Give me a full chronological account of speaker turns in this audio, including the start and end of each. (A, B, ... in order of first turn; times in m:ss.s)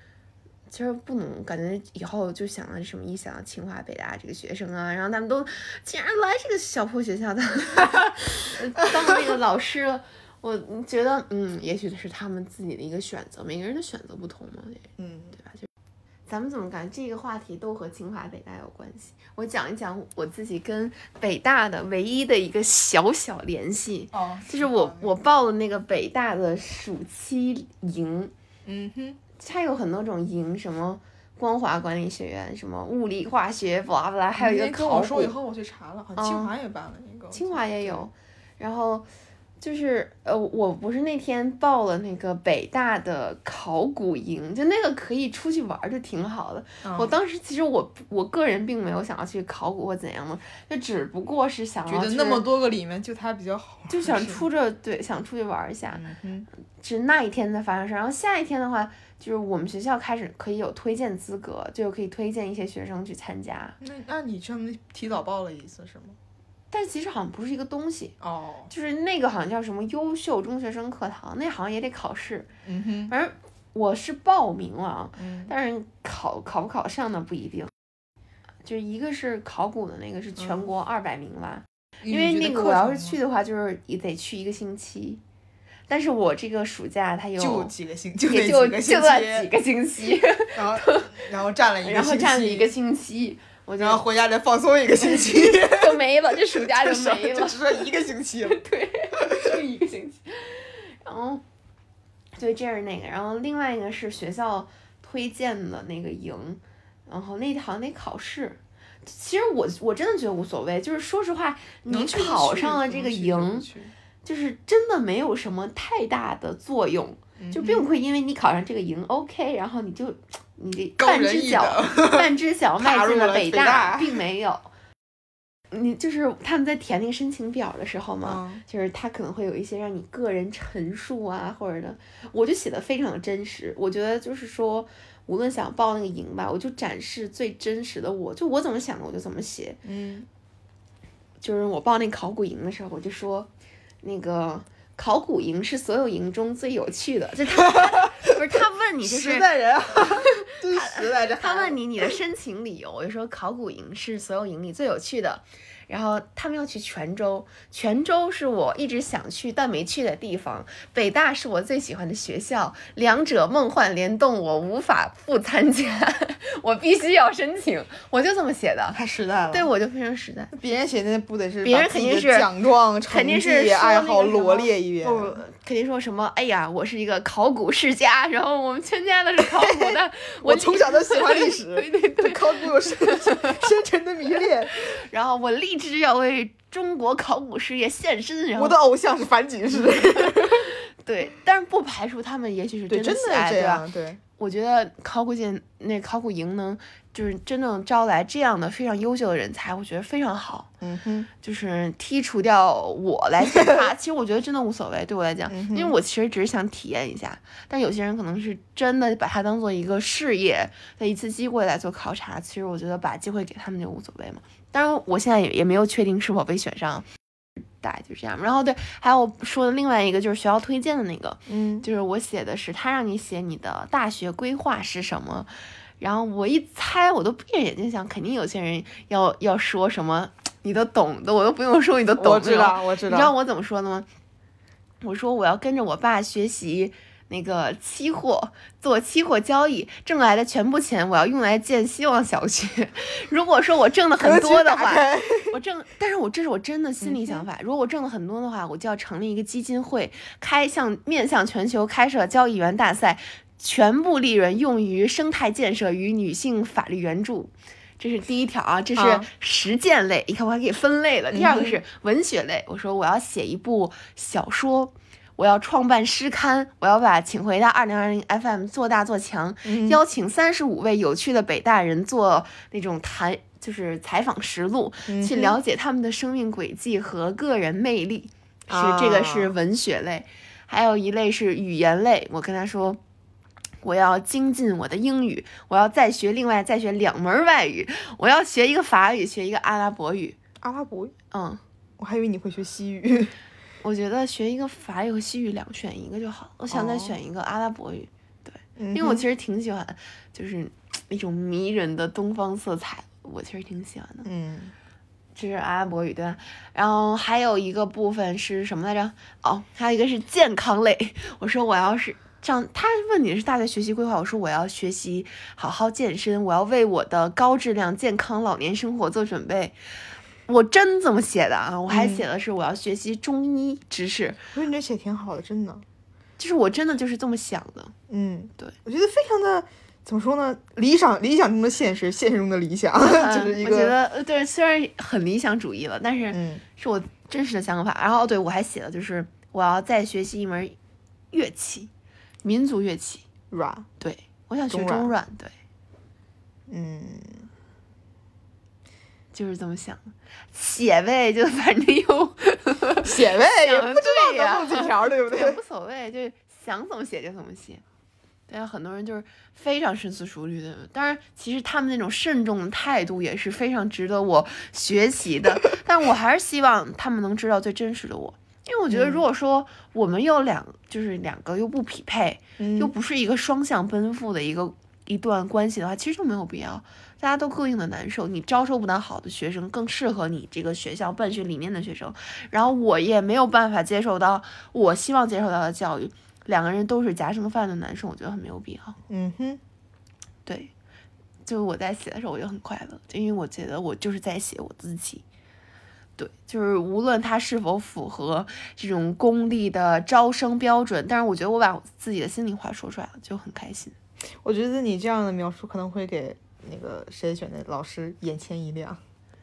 0:00.7-0:15.6 A
0:15.0-0:15.4 B
0:16.3-0:28.3 A
0:24.1-0:25.1 B
0:28.6-0:29.2 B
0:29.4-0:35.3 A
0:34.4-0:38.1 B
0:36.2-0:36.5 A
0:37.3-0:39.0 A
0:39.6-0:52.4 A
0:46.8-0:47.2 B
0:51.9-0:54.4 B
0:53.9-0:56.0 A
0:55.9-0:56.5 B
0:56.8-1:03.8 A
1:03.8-1:06.2 B
1:06.7-1:08.1 A
1:08.2-1:08.7 B
1:08.7-1:12.5 A
1:12.6-1:13.1 B
1:13.1-1:17.7 A
1:15.2-1:15.5 B
1:18.6-1:25.2 A
1:20.4-1:20.7 B
1:22.0-1:23.2 B
1:25.9-1:27.7 A
1:27.4-1:29.5 B
1:28.2-1:31.1 A
1:30.5-1:32.7 B
1:31.8-1:34.0 A
1:33.8-1:38.6 B
1:35.0-1:37.9 A
1:38.4-1:41.4 A
1:39.1-1:39.5 B
1:42.4-1:53.7 A
1:51.9-1:53.9 B
1:54.2-2:04.7 A
1:57.4-1:57.9 B
2:01.0-2:04.2 B
2:05.7-2:19.8 A
2:08.2-2:08.6 B
2:19.8-2:20.3 B
2:21.4-2:23.5 A
2:24.0-2:50.5 A
2:27.6-2:28.3 B
2:29.0-2:32.2 B
2:48.9-2:49.7 B
2:50.5-2:55.4 B
2:51.6-2:52.5 A
2:53.1-3:03.6 A
2:59.4-3:04.9 B
3:04.7-3:08.8 A
3:08.6-3:10.7 B
3:09.8-3:13.8 A
3:12.9-3:14.2 B
3:14.4-3:20.7 A
3:20.8-3:21.3 B
3:21.4-3:37.0 A
3:23.5-3:23.9 B
3:25.5-3:25.9 B
3:37.8-3:54.1 A
3:41.5-3:41.8 B
3:52.2-3:53.3 B
3:55.0-4:43.0 A
4:04.2-4:05.5 B
4:07.0-4:07.4 B
4:19.0-4:19.3 B
4:21.3-4:21.8 B
4:29.6-4:30.0 B
4:35.1-4:35.6 B
4:38.7-4:39.5 B
4:43.8-4:50.4 A
4:50.6-4:51.1 B
4:51.3-4:51.6 A
4:52.0-4:53.3 B
4:53.8-5:04.3 A
4:56.7-4:57.1 B
4:58.8-4:59.2 B
5:04.2-5:04.7 B
5:05.3-5:19.8 A
5:20.5-5:24.4 A
5:21.9-5:22.2 B
5:24.5-5:25.8 B
5:26.4-5:27.9 A
5:28.1-5:33.9 B
5:33.0-5:40.8 A
5:36.3-5:36.6 B
5:41.3-5:41.9 A
5:42.4-5:43.3 A
5:43.5-5:43.9 B
5:44.0-5:45.5 A
5:44.7-5:45.1 B
5:46.7-5:47.4 B
5:49.3-5:57.8 A
5:53.0-5:55.6 B
5:58.5-6:29.0 A
6:08.9-6:09.2 B
6:12.6-6:12.9 B
6:29.1-6:29.6 B
6:30.4-6:30.7 A
6:31.4-6:35.2 A
6:36.2-6:43.9 A
6:44.4-6:49.0 B